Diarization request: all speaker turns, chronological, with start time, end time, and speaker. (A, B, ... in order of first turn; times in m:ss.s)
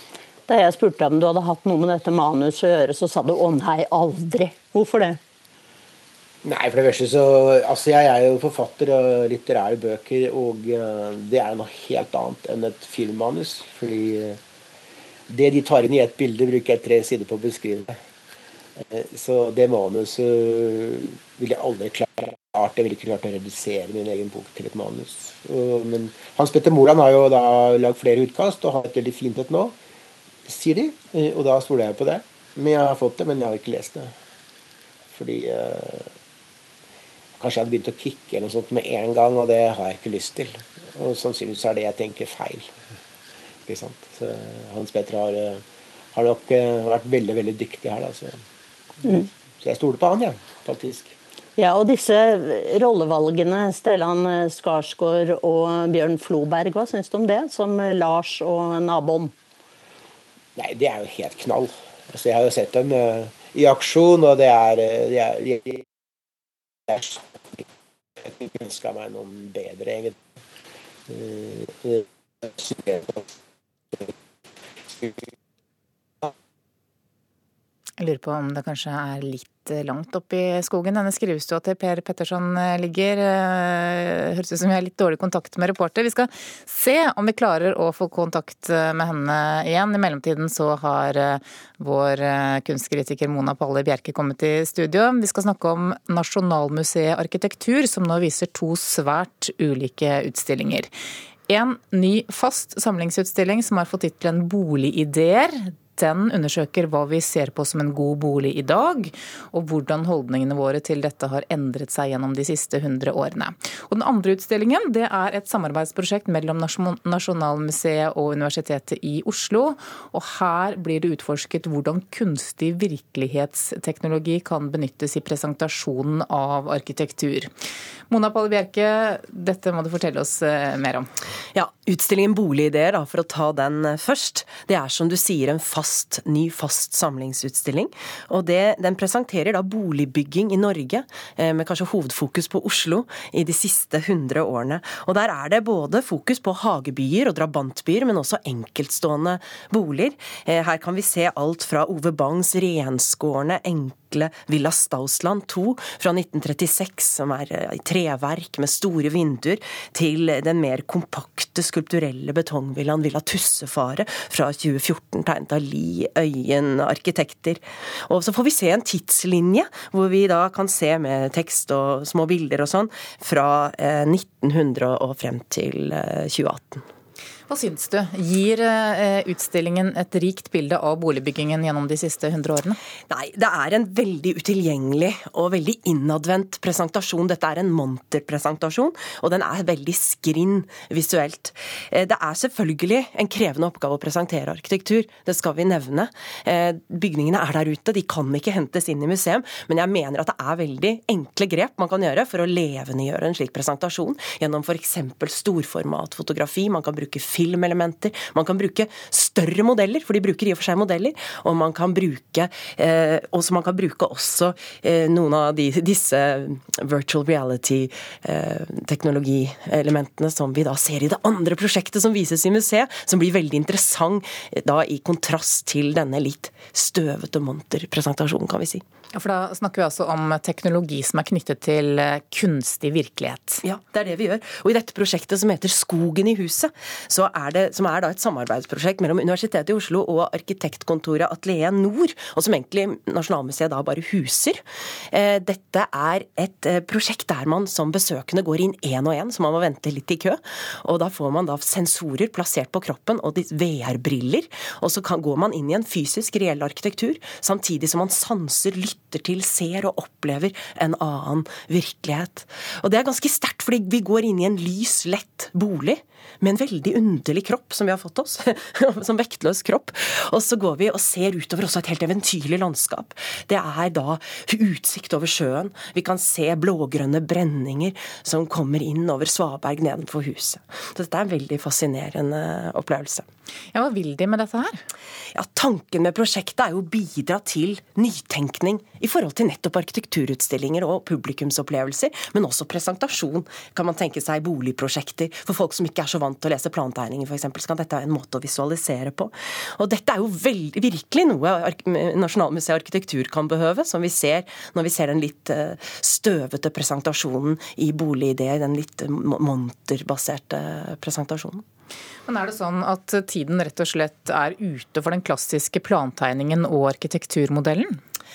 0:00.5-0:05.2 A
0:06.4-0:14.4 B
0:15.3-0:18.0 B
0:18.9-0:29.8 B
0:30.5-0:34.1 B
0:35.1-0:36.1 B
0:37.4-0:42.7 B
0:43.7-0:45.6 B
0:46.1-0:48.3 B
0:49.6-0:51.1 B
0:51.6-0:59.3 A
1:00.6-1:05.8 B
1:06.9-1:07.6 B
1:08.2-1:10.2 B
1:11.1-1:13.2 B
1:18.0-1:40.9 C
1:41.5-2:07.5 C
2:08.1-2:11.1 C
2:11.6-2:56.8 D
2:57.5-3:02.8 C
3:03.1-3:48.8 D
3:49.1-3:53.6 C
3:53.6-4:04.6 D
4:05.1-4:43.3 D
4:43.7-4:44.8 C
4:45.4-5:11.6 D
5:12.3-5:18.0 C